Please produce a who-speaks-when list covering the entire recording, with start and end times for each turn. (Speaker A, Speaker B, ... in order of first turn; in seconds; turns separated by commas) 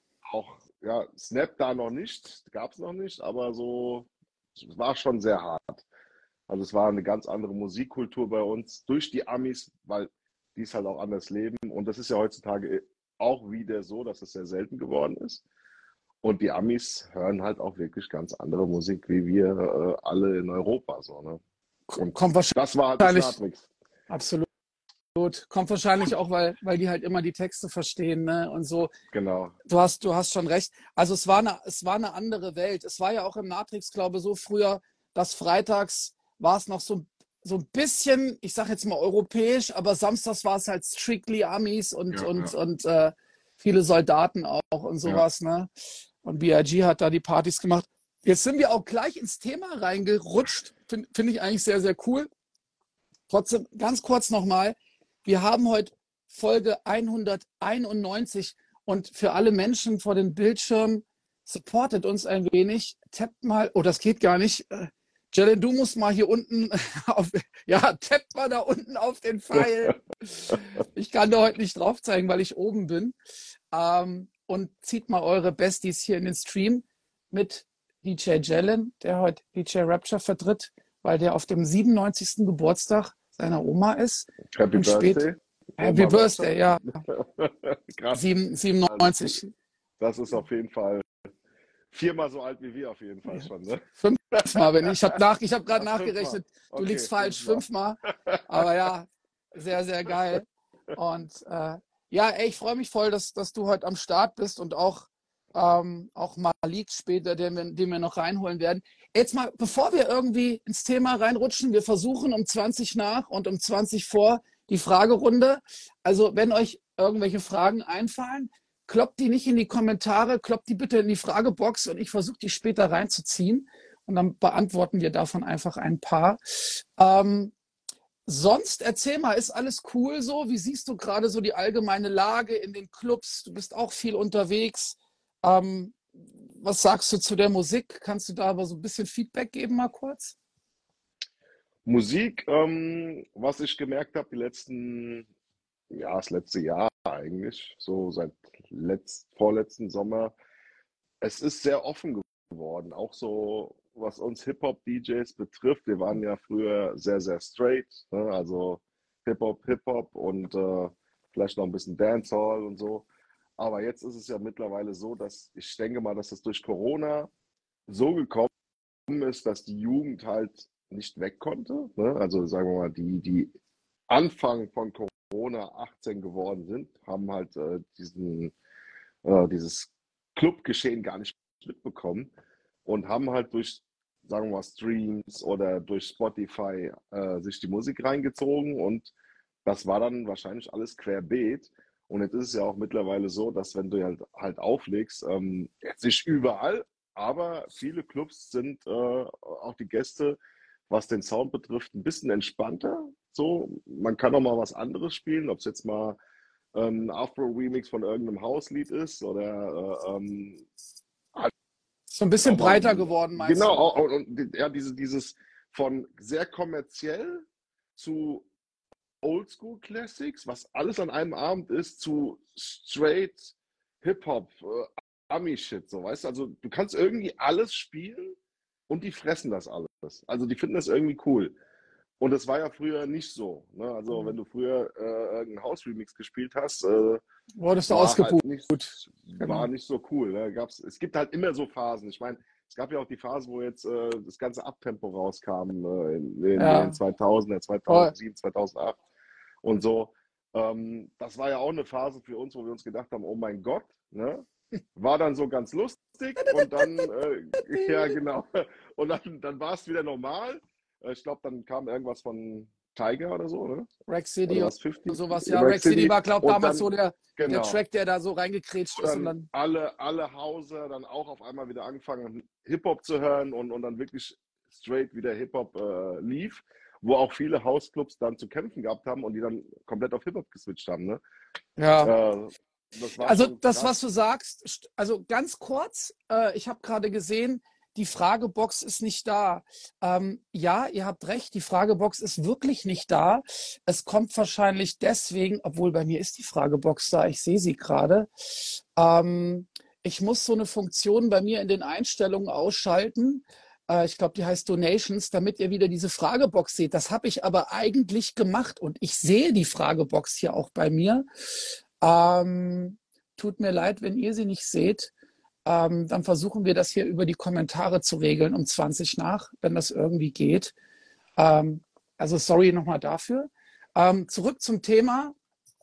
Speaker A: 0.2-5.8, Speaker A: 6.5-15.4, Speaker A: 16.2-21.4, Speaker B: 21.9-23.4, Speaker A: 22.0-23.7, Speaker B: 24.1-24.5, Speaker B: 25.1-28.9, Speaker A: 29.1-29.5, Speaker B: 29.7-45.7, Speaker A: 42.1-42.5, Speaker B: 46.2-52.3, Speaker B: 53.3-73.1, Speaker B: 73.7-85.2, Speaker A: 84.5-88.2, Speaker B: 85.8-87.0, Speaker B: 88.1-89.5, Speaker A: 88.8-89.3, Speaker A: 90.0-91.0, Speaker A: 91.9-94.9, Speaker B: 94.0-127.5, Speaker A: 95.8-98.7, Speaker B: 128.2-136.0, Speaker B: 136.6-140.3, Speaker A: 141.8-145.3, Speaker A: 145.9-150.3, Speaker A: 151.2-163.1, Speaker A: 163.6-167.3, Speaker A: 167.9-168.5, Speaker A: 169.1-173.5, Speaker A: 174.1-178.5, Speaker A: 179.2-182.3, Speaker A: 182.8-189.1, Speaker A: 189.6-200.4, Speaker A: 200.9-206.2, Speaker A: 206.7-210.6, Speaker B: 212.1-213.9, Speaker A: 212.4-217.4, Speaker A: 217.9-218.5, Speaker A: 219.2-228.3, Speaker A: 228.9-231.5, Speaker A: 232.2-237.2, Speaker B: 237.6-239.7, Speaker A: 237.9-249.0, Speaker B: 246.6-247.0, Speaker B: 247.9-248.1, Speaker A: 249.6-263.9, Speaker B: 256.4-258.1, Speaker B: 264.1-269.5, Speaker A: 264.4-267.8, Speaker A: 269.0-281.2, Speaker B: 281.8-282.1, Speaker A: 282.0-283.9, Speaker B: 283.2-315.1, Speaker B: 315.6-320.7, Speaker B: 321.4-325.3